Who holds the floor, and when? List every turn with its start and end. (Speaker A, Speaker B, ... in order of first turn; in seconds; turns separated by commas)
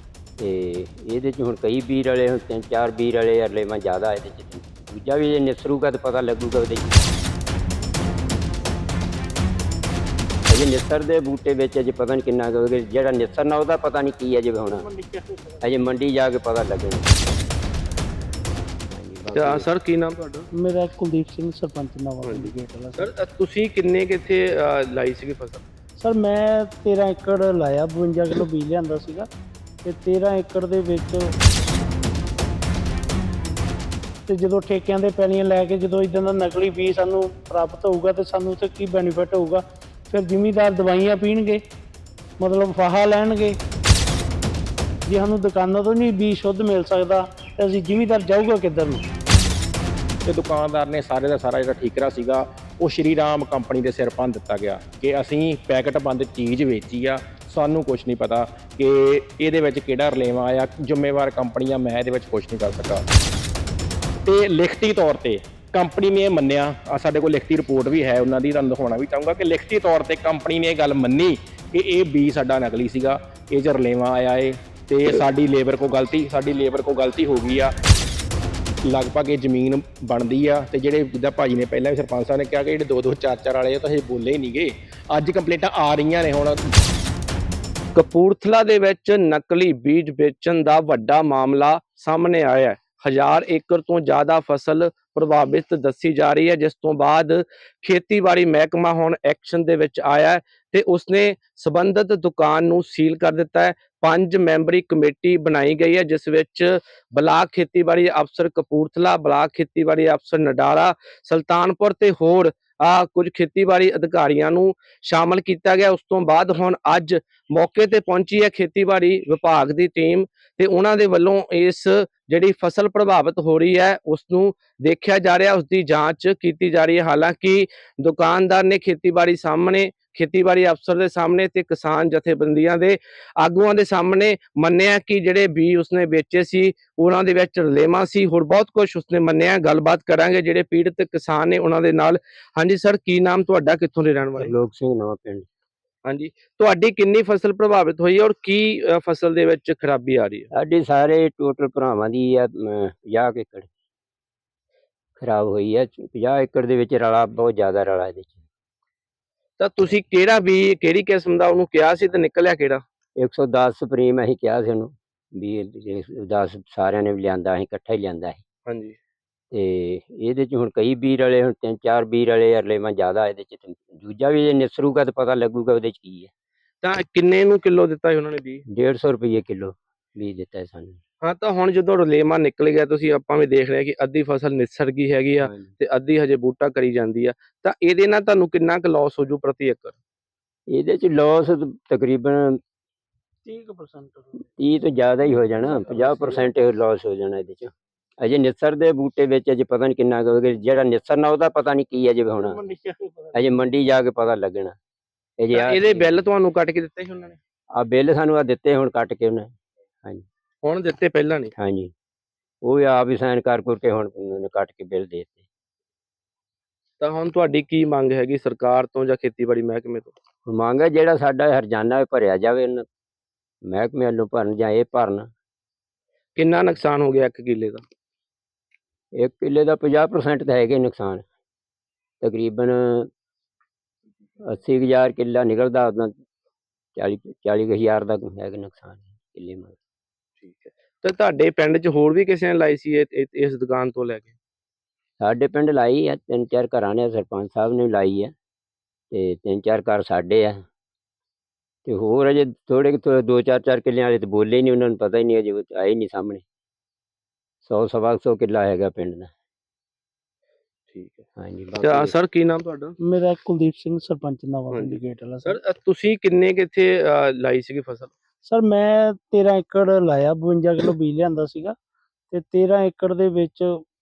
Speaker A: 0.4-7.0, Speaker A: 10.5-14.9, Speaker B: 15.0-15.4, Speaker A: 15.6-17.1, Speaker A: 18.9-19.7, Speaker C: 19.3-20.5, Speaker B: 20.6-23.1, Speaker C: 22.3-25.6, Speaker B: 26.0-29.3, Speaker B: 29.8-31.4, Speaker B: 34.3-41.6, Speaker B: 42.4-43.6, Speaker B: 45.1-49.0, Speaker D: 50.2-63.0, Speaker D: 64.2-77.7, Speaker D: 78.8-86.7, Speaker C: 88.0-144.6, Speaker A: 144.4-145.5, Speaker C: 146.1-150.5, Speaker A: 150.5-153.7, Speaker A: 155.2-158.4, Speaker C: 159.6-162.8, Speaker A: 163.2-168.4, Speaker C: 168.7-169.0, Speaker A: 169.5-176.3, Speaker C: 176.8-178.6, Speaker A: 178.7-181.0, Speaker C: 181.2-190.0, Speaker A: 185.4-185.7, Speaker A: 190.7-192.6, Speaker B: 193.4-194.4, Speaker A: 194.6-202.6, Speaker B: 195.8-196.4, Speaker B: 202.5-203.3, Speaker A: 203.3-204.8, Speaker A: 205.4-206.1, Speaker C: 205.5-207.4, Speaker A: 207.8-210.3, Speaker C: 210.6-211.5, Speaker A: 211.6-211.9, Speaker A: 212.6-215.5, Speaker C: 217.0-220.1, Speaker A: 220.5-222.9, Speaker A: 223.7-225.3, Speaker C: 226.4-227.8, Speaker A: 229.2-231.2, Speaker A: 232.2-233.1, Speaker A: 234.5-236.1, Speaker A: 237.0-239.8, Speaker C: 240.4-244.4, Speaker A: 245.2-248.3, Speaker A: 249.1-250.6, Speaker A: 251.8-256.4, Speaker A: 257.6-259.3, Speaker C: 260.9-261.2, Speaker A: 261.4-262.1, Speaker C: 261.8-262.9, Speaker B: 263.0-265.6, Speaker C: 264.7-268.1, Speaker B: 268.5-271.8, Speaker B: 272.3-273.8